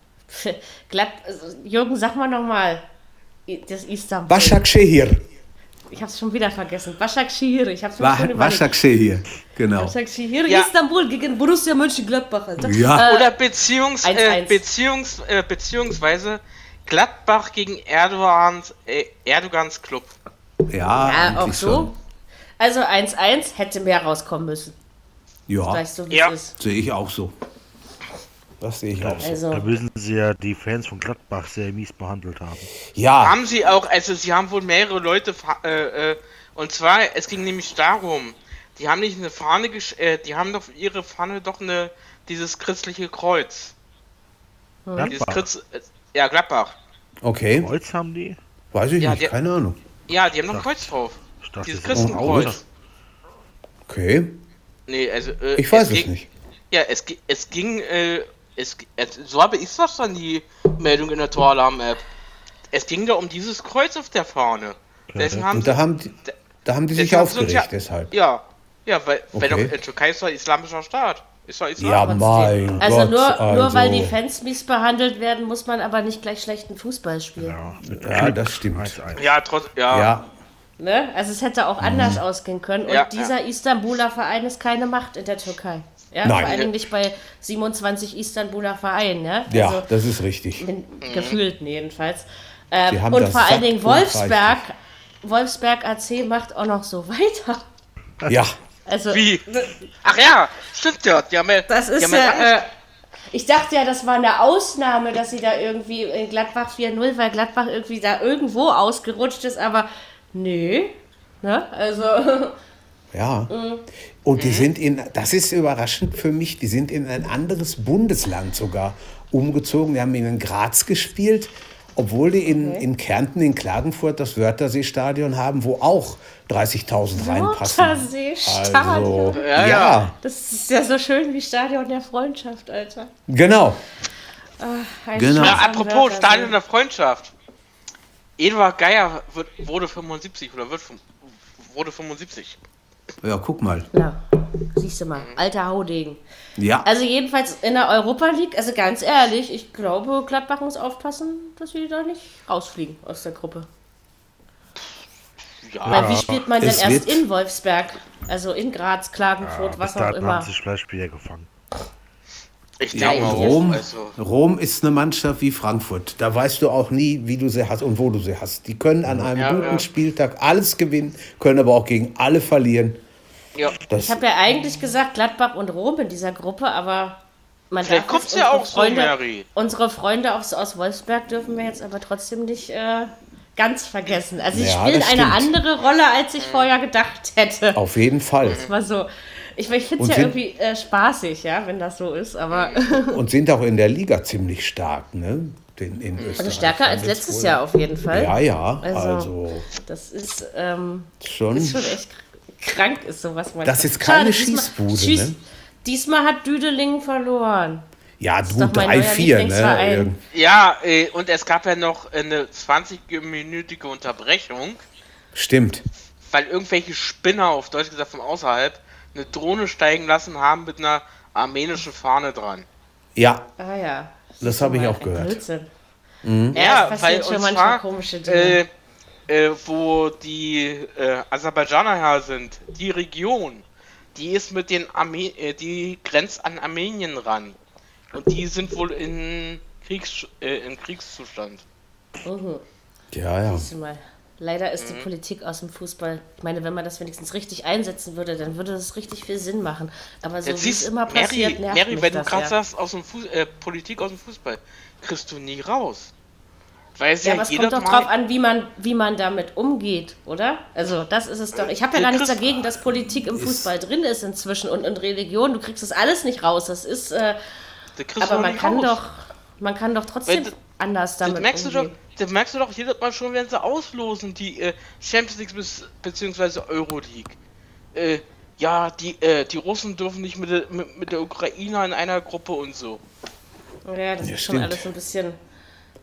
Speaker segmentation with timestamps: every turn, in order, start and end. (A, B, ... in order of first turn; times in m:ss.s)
0:00.3-0:02.8 A
0:03.5-0:04.6 A
0:04.3-0:05.2 B
0:05.9-0:08.7 A
0:08.0-0:10.0 B
0:09.8-0:13.3 A
0:12.6-0:13.1 B
0:13.0-0:20.1 C
0:14.0-0:14.6 A
0:20.7-0:21.9 B
0:21.0-0:21.9 A
0:22.6-0:24.8 A
0:25.5-0:25.8 B
0:25.7-0:26.6 A
0:26.6-0:27.3 B
0:28.6-0:29.4 B
0:29.0-0:32.7 D
0:29.2-0:29.7 A
0:32.9-0:33.4 B
0:33.2-0:43.7 C
0:44.9-0:45.2 A
0:45.0-0:45.5 D
0:45.1-0:46.8 C
0:47.2-0:47.7 B
0:47.6-0:48.4 D
0:48.7-0:49.8 B
0:49.0-0:49.3 C
0:50.1-0:52.6 C
0:50.5-0:50.9 D
0:51.4-0:52.6 D
0:51.9-0:52.6 B
0:53.9-0:54.4 B
0:54.9-0:56.1 C
0:55.6-0:56.3 B
0:56.7-1:02.0 C
1:02.7-1:06.4 C
1:05.1-1:05.5 D
1:05.5-1:08.1 B
1:07.0-1:12.6 C
1:09.3-1:09.7 B
1:11.8-1:14.2 B
1:12.1-1:17.6 A
1:17.4-1:19.3 D
1:17.8-1:19.0 B
1:19.2-1:20.1 C
1:19.9-1:20.3 B
1:20.8-1:29.9 A
1:21.8-1:22.2 B
1:22.9-1:23.3 C
1:26.2-1:26.6 B
1:26.4-1:26.7 C
1:29.5-1:30.7 B
1:30.6-1:37.6 A
1:31.0-1:31.4 C
1:32.9-1:34.6 B
1:38.3-1:38.6 B
1:38.9-1:39.8 A
1:39.1-1:39.4 C
1:40.0-1:42.6 C
1:41.7-1:42.7 A
1:43.3-1:52.6 A
1:53.1-1:53.5 B
1:53.5-1:53.8 A
1:54.2-2:10.2 B
1:54.4-1:54.7 C
2:02.5-2:02.8 A
2:07.2-2:09.4 A
2:09.3-2:10.0 C
2:10.2-2:13.1 A
2:13.3-2:13.8 B
2:14.6-2:16.6 A
2:15.2-2:15.6 B
2:15.4-2:17.3 C
2:18.4-2:22.6 C
2:23.2-2:23.9 B
2:23.9-2:24.2 A
2:24.8-2:26.2 A
2:26.6-2:26.9 B
2:26.8-2:33.7 A
2:35.6-2:36.2 C
2:35.9-2:36.4 D
2:35.9-2:40.5 A
2:36.6-2:37.2 B
2:39.4-2:41.5 D
2:42.8-2:44.2 C
2:42.9-2:53.0 B
2:43.0-2:43.7 A
2:49.4-2:49.8 C
2:53.9-2:54.2 B
2:53.9-2:57.2 A
2:57.7-3:07.8 A
2:57.8-2:59.5 C
3:04.5-3:05.5 B
3:06.4-3:06.7 C
3:07.8-3:08.7 B
3:08.4-3:13.2 A
3:10.0-3:10.4 B
3:12.5-3:12.8 C
3:13.1-3:19.7 B
3:16.2-3:16.5 C
3:16.4-3:27.8 A
3:21.2-3:22.0 B
3:23.6-3:25.4 B
3:28.2-3:30.2 B
3:28.4-3:30.1 A
3:30.3-3:34.8 C
3:35.3-3:35.8 B
3:36.2-3:42.7 C
3:43.2-3:43.5 B
3:43.6-3:45.7 A
3:44.4-3:45.4 B
3:46.2-3:46.6 B
3:46.5-3:48.6 A
3:46.5-3:48.7 C
3:49.3-3:53.6 C
3:54.2-3:57.6 C
3:58.1-4:01.6 C
4:02.2-4:02.6 A
4:03.1-4:03.7 B
4:03.5-4:12.5 A
4:04.8-4:05.1 C
4:10.4-4:16.1 C
4:17.0-4:18.1 C
4:17.2-4:27.4 A
4:21.9-4:22.5 C
4:23.0-4:23.7 B
4:28.0-4:29.0 C
4:28.2-4:32.0 A
4:31.2-4:37.4 C
4:38.0-4:43.0 C
4:43.9-4:45.4 A
4:44.2-4:44.9 B